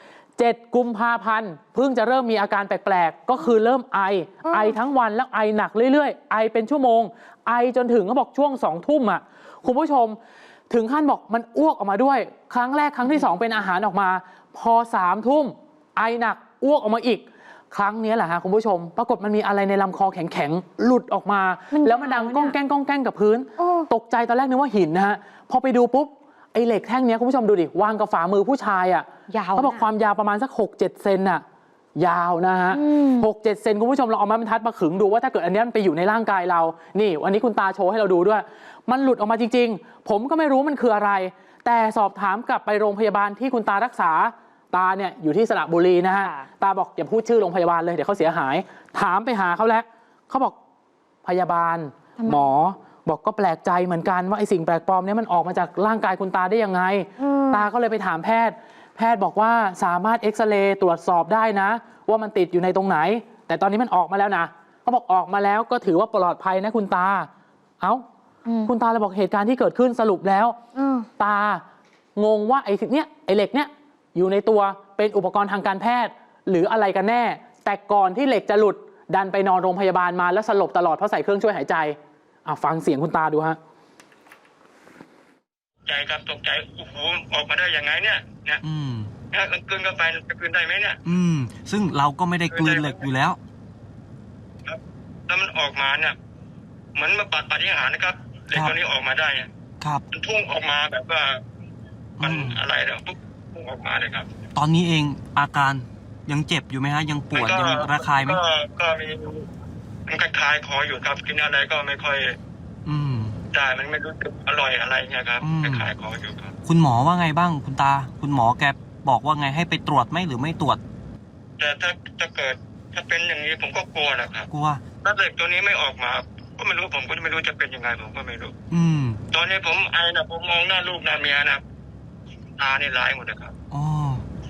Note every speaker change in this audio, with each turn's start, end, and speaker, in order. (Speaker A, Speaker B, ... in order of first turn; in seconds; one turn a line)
Speaker A: 0.4-10.2
Speaker A: 10.7-31.4
Speaker B: 21.7-22.5
Speaker B: 23.6-23.9
Speaker B: 29.3-29.8
Speaker A: 31.9-50.5
Speaker B: 32.7-33.2
Speaker B: 46.2-46.5
Speaker A: 51.2-67.3
Speaker B: 52.2-52.5
Speaker B: 57.2-57.6
Speaker B: 68.5-68.7
Speaker A: 68.6-70.5
Speaker B: 70.7-71.1
Speaker A: 71.2-71.6
Speaker A: 72.2-83.6
Speaker C: 85.8-88.6
Speaker D: 88.6-89.1
Speaker C: 89.3-91.0
Speaker D: 91.0-93.4
Speaker C: 92.5-93.0
Speaker C: 94.7-96.2
Speaker C: 96.9-99.5
Speaker C: 100.1-101.4
Speaker D: 102.2-102.6
Speaker C: 102.2-104.3
Speaker D: 104.5-108.4
Speaker C: 107.3-109.5
Speaker C: 110.1-112.3
Speaker D: 112.8-113.4
Speaker C: 113.5-116.5
Speaker D: 115.4-115.9
Speaker D: 116.6-120.8
Speaker C: 121.6-124.5
Speaker D: 124.5-124.8
Speaker C: 125.0-128.5
Speaker D: 128.7-129.2
Speaker C: 129.3-131.6
Speaker C: 132.6-133.5
Speaker D: 133.7-134.2